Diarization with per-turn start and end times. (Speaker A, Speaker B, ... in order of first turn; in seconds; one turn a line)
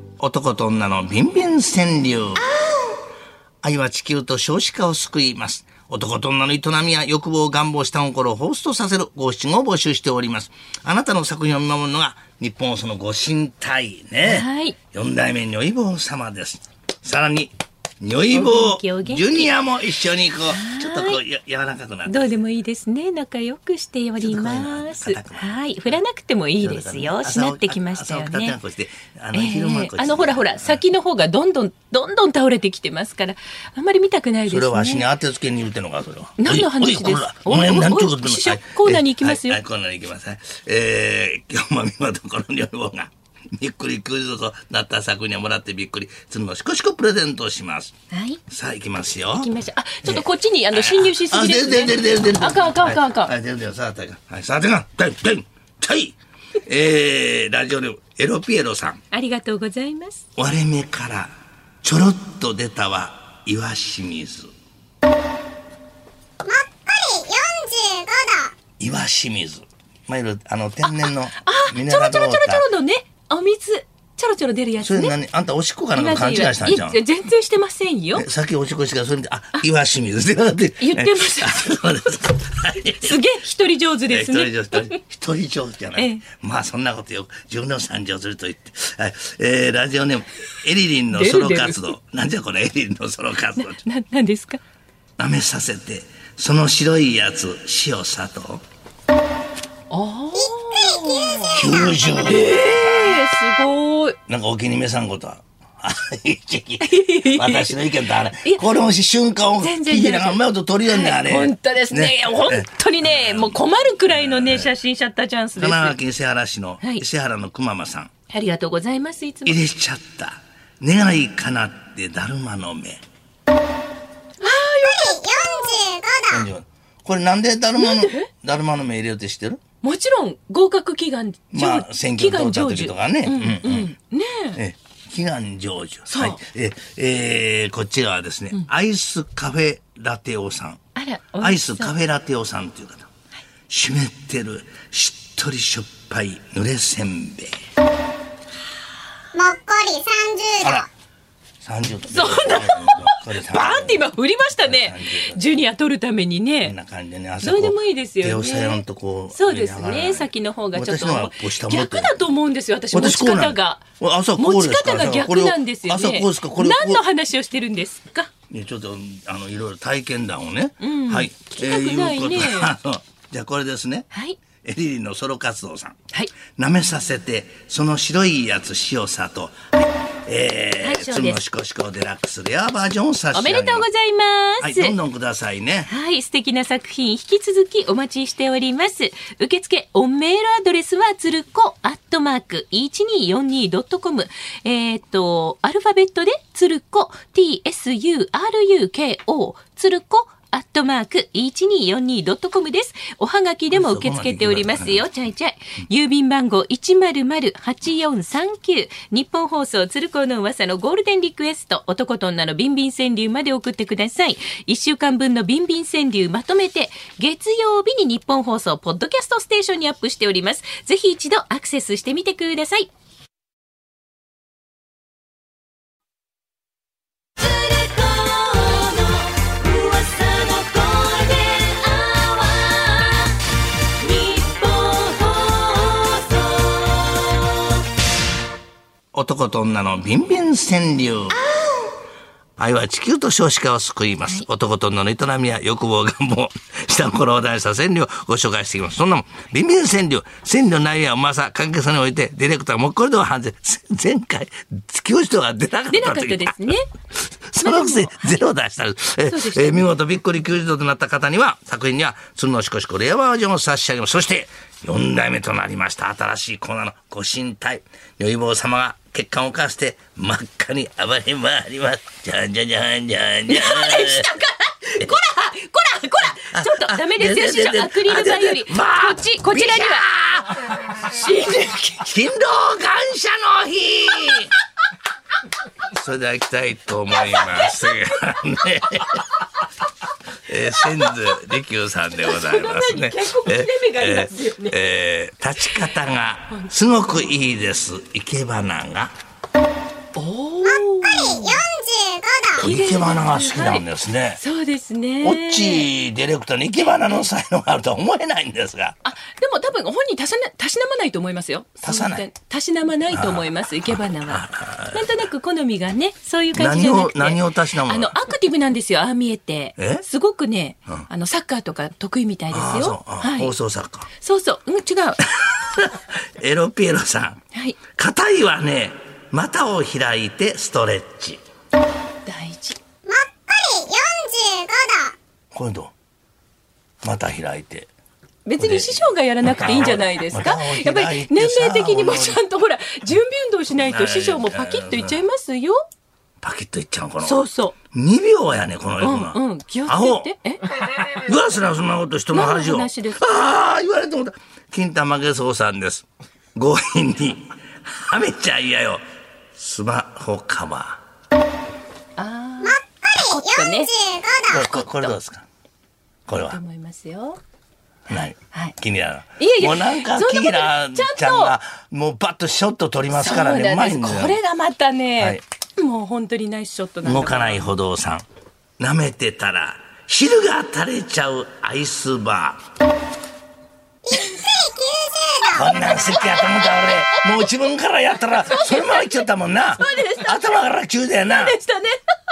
Speaker A: 0.2-2.5
Speaker B: 2.4-3.0
Speaker A: 3.6-22.4
Speaker B: 14.2-14.8
Speaker B: 18.3-19.5
Speaker B: 20.5-21.2
Speaker B: 22.1-28.6
Speaker A: 24.2-25.6
Speaker A: 26.6-30.8
Speaker B: 29.3-35.0
Speaker A: 34.5-47.9
Speaker B: 36.4-39.6
Speaker B: 48.1-48.4
Speaker A: 48.5-49.5
Speaker B: 49.4-53.3
Speaker A: 50.0-59.0
Speaker B: 59.1-60.2
Speaker A: 60.4-64.5
Speaker C: 66.4-68.5
Speaker A: 68.8-72.7
Speaker B: 70.8-75.1
Speaker A: 74.8-77.0
Speaker B: 75.9-78.2
Speaker A: 78.1-83.3
Speaker B: 80.8-81.8
Speaker B: 83.0-85.0
Speaker A: 84.1-93.8
Speaker B: 86.0-86.2
Speaker B: 91.1-91.9
Speaker B: 93.6-94.6
Speaker A: 95.2-98.6
Speaker B: 99.9-104.2
Speaker C: 100.4-101.4
Speaker A: 101.5-103.2
Speaker A: 104.3-114.7
Speaker B: 106.8-108.6
Speaker B: 109.6-116.0
Speaker A: 115.6-118.1
Speaker B: 118.3-119.6
Speaker A: 119.5-123.0
Speaker B: 124.4-125.5
Speaker C: 124.9-126.4
Speaker A: 126.3-129.6
Speaker B: 127.8-128.3
Speaker B: 129.8-134.6
Speaker A: 131.5-133.9
Speaker A: 134.5-140.8
Speaker B: 136.1-136.4
Speaker B: 140.9-141.9
Speaker A: 141.4-143.1
Speaker A: 143.7-147.6
Speaker C: 149.3-150.8
Speaker A: 150.6-150.9
Speaker A: 151.6-154.1
Speaker B: 152.1-156.7
Speaker A: 154.6-155.4
Speaker A: 156.6-162.2
Speaker B: 157.4-163.8
Speaker A: 162.9-167.0
Speaker B: 164.4-168.3
Speaker A: 168.5-174.1
Speaker B: 170.8-172.7
Speaker B: 174.1-174.4
Speaker A: 174.6-176.0
Speaker A: 176.5-183.9
Speaker B: 180.8-181.4
Speaker B: 183.3-184.9
Speaker A: 184.6-185.9
Speaker B: 185.9-222.9
Speaker A: 203.7-205.1
Speaker B: 227.4-233.4
Speaker B: 234.0-237.7
Speaker A: 239.1-241.4
Speaker B: 241.3-241.9
Speaker A: 242.6-274.3
Speaker B: 255.9-256.9
Speaker B: 257.6-258.4
Speaker B: 259.3-259.9
Speaker B: 273.5-280.0
Speaker A: 276.5-280.8
Speaker B: 280.9-282.1
Speaker A: 282.0-284.5
Speaker A: 285.9-289.2
Speaker B: 287.2-287.9
Speaker A: 290.5-299.1
Speaker B: 290.8-291.4
Speaker B: 292.2-294.8
Speaker B: 300.1-301.6
Speaker C: 301.0-302.6
Speaker A: 302.6-304.4
Speaker B: 302.6-305.9
Speaker A: 305.2-309.0
Speaker B: 309.0-323.5
Speaker A: 311.8-312.2
Speaker A: 313.1-313.5
Speaker A: 314.2-315.1
Speaker A: 316.5-318.2
Speaker A: 319.8-320.0
Speaker A: 322.5-324.1
Speaker B: 324.2-325.4
Speaker A: 325.4-327.4
Speaker B: 327.5-327.8
Speaker A: 327.9-331.4
Speaker B: 332.2-332.8
Speaker C: 333.0-335.1
Speaker A: 335.5-335.9
Speaker A: 337.0-337.9
Speaker B: 338.4-345.8
Speaker A: 338.6-342.4
Speaker A: 343.7-345.2
Speaker A: 346.4-347.4
Speaker B: 347.2-347.8
Speaker A: 347.9-350.3
Speaker B: 349.0-350.6
Speaker A: 351.0-359.0
Speaker B: 352.3-353.3
Speaker A: 359.6-361.0
Speaker B: 362.2-363.9
Speaker C: 362.6-364.6
Speaker A: 364.5-365.4
Speaker B: 364.5-365.1
Speaker A: 366.3-366.6
Speaker B: 366.3-367.4
Speaker A: 368.1-374.4
Speaker B: 368.5-368.8
Speaker B: 369.4-371.5
Speaker B: 373.1-377.7
Speaker A: 377.0-378.2
Speaker A: 378.8-382.6
Speaker C: 384.1-385.7
Speaker A: 385.5-391.6
Speaker B: 386.0-387.5
Speaker B: 388.3-389.2
Speaker B: 389.8-390.6
Speaker B: 391.2-392.0